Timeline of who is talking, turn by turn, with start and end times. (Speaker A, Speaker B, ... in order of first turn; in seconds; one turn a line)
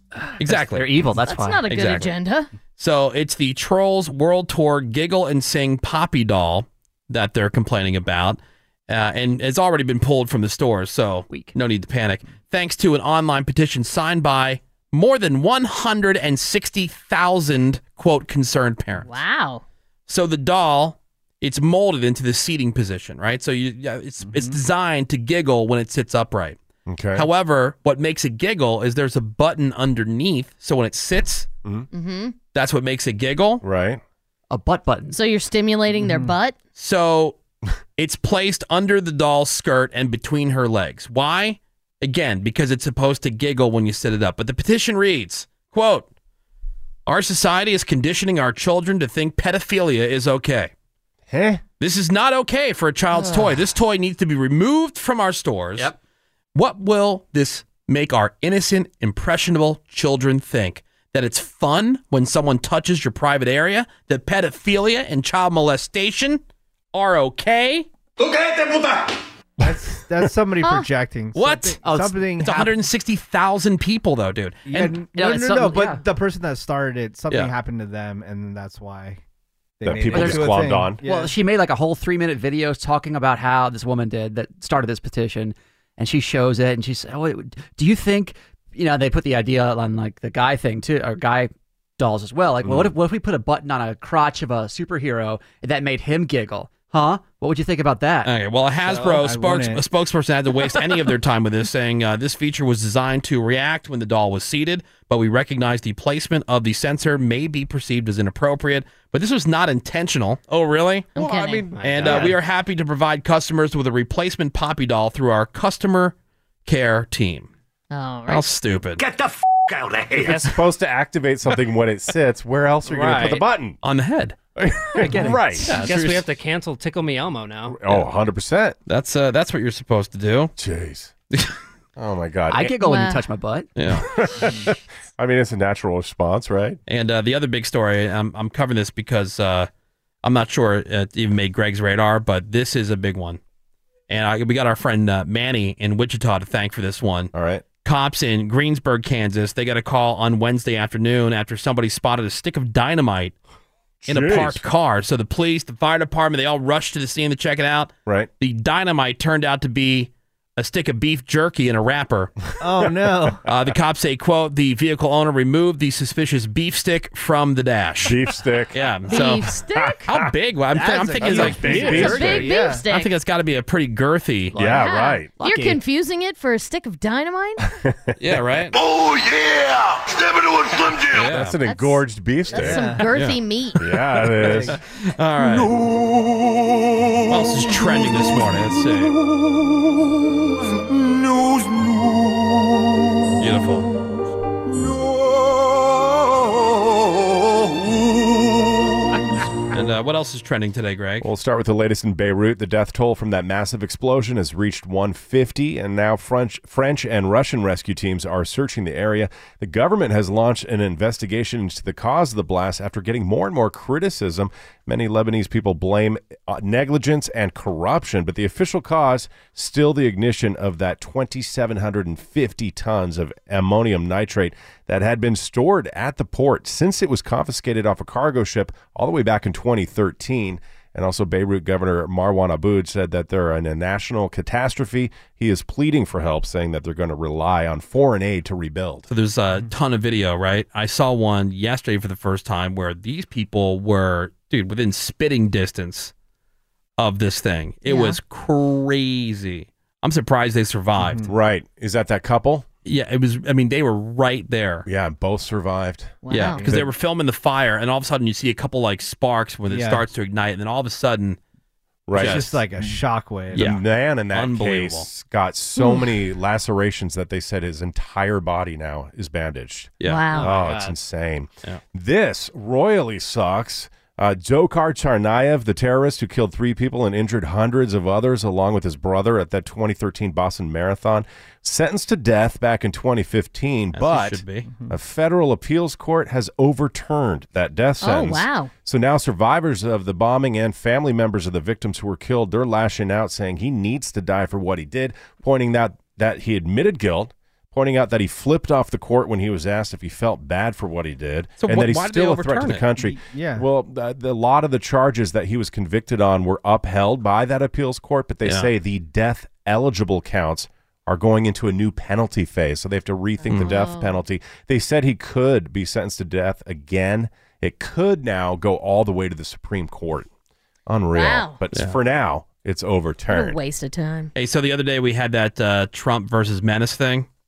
Speaker A: 0.1-1.8
Speaker B: 0.4-0.9
Speaker C: 1.2-2.5
Speaker B: 1.7-2.1
Speaker B: 2.8-19.1
Speaker A: 11.3-11.5
Speaker C: 19.0-19.6
Speaker B: 20.1-26.6
Speaker D: 26.9-27.3
Speaker B: 27.1-31.5
Speaker C: 31.9-32.4
Speaker B: 32.5-33.6
Speaker D: 33.6-34.0
Speaker A: 34.5-35.2
Speaker C: 35.1-36.6
Speaker E: 35.9-36.4
Speaker B: 36.8-37.4
Speaker B: 38.0-46.1
Speaker B: 47.1-50.7
Speaker D: 51.3-51.6
Speaker B: 51.8-55.9
Speaker B: 56.5-66.4
Speaker B: 66.9-67.9
Speaker E: 69.6-72.7
Speaker C: 70.6-70.9
Speaker B: 71.3-71.8
Speaker A: 71.8-72.2
Speaker B: 72.4-75.0
Speaker E: 74.7-79.2
Speaker A: 75.1-76.0
Speaker E: 79.8-81.3
Speaker D: 79.8-81.0
Speaker A: 80.1-98.3
Speaker D: 92.6-92.9
Speaker B: 98.2-111.2
Speaker E: 98.9-99.8
Speaker F: 98.9-99.2
Speaker C: 111.2-111.7
Speaker D: 111.2-112.3
Speaker F: 111.7-112.4
Speaker B: 111.8-116.2
Speaker B: 116.7-117.5
Speaker C: 117.9-118.5
Speaker B: 118.3-119.0
Speaker D: 120.1-123.8
Speaker F: 120.2-120.6
Speaker F: 122.9-123.5
Speaker B: 123.8-124.4
Speaker D: 124.6-125.8
Speaker A: 125.0-125.7
Speaker B: 125.6-126.2
Speaker F: 125.7-127.8
Speaker D: 127.7-128.8
Speaker B: 128.9-130.5
Speaker D: 130.6-131.1
Speaker D: 132.0-132.7
Speaker A: 132.5-133.7
Speaker C: 132.8-133.2
Speaker B: 133.8-134.1
Speaker D: 134.1-136.8
Speaker B: 136.9-139.7
Speaker B: 140.2-143.4
Speaker B: 144.1-147.3
Speaker D: 147.3-147.7
Speaker B: 147.8-153.3
Speaker D: 154.0-154.6
Speaker B: 154.1-162.3
Speaker E: 162.6-163.4
Speaker B: 163.5-168.2
Speaker D: 168.0-168.8
Speaker B: 168.7-169.5
Speaker C: 169.1-170.1
Speaker D: 169.8-170.2
Speaker B: 170.1-174.6
Speaker E: 170.7-172.8
Speaker D: 171.2-172.5
Speaker C: 171.7-173.1
Speaker A: 174.5-174.8
Speaker D: 174.6-175.3
Speaker C: 174.8-177.7
Speaker A: 175.4-175.8
Speaker D: 177.8-178.1
Speaker B: 178.2-178.8
Speaker G: 178.8-181.1
Speaker B: 181.0-181.6
Speaker D: 181.2-182.8
Speaker C: 181.6-183.9
Speaker E: 182.5-183.1
Speaker B: 183.1-183.4
Speaker D: 183.8-184.8
Speaker E: 184.4-184.8
Speaker B: 184.5-185.7
Speaker B: 187.3-189.2
Speaker B: 193.4-193.9
Speaker B: 199.7-201.3
Speaker D: 201.2-239.1
Speaker B: 239.1-246.1
Speaker B: 247.0-251.2
Speaker C: 247.9-248.2
Speaker E: 251.0-251.3
Speaker D: 251.3-252.7
Speaker B: 252.8-254.9
Speaker D: 254.9-256.9
Speaker C: 256.2-256.6
Speaker B: 256.3-261.4
Speaker E: 259.7-260.0
Speaker D: 262.1-263.0
Speaker B: 262.1-262.6
Speaker E: 262.1-263.7
Speaker B: 263.5-265.1
Speaker D: 263.5-320.3
Speaker B: 270.0-270.3
Speaker C: 270.0-270.5
Speaker F: 270.3-271.0
Speaker B: 283.9-284.7
Speaker E: 284.7-284.9
Speaker C: 288.0-288.7
Speaker B: 301.6-302.9
Speaker E: 303.0-303.6
Speaker B: 308.4-308.7
Speaker C: 313.4-314.2
Speaker B: 313.5-313.8
Speaker D: 320.9-323.6
Speaker C: 321.1-321.6
Speaker C: 323.3-324.3
Speaker B: 324.4-327.3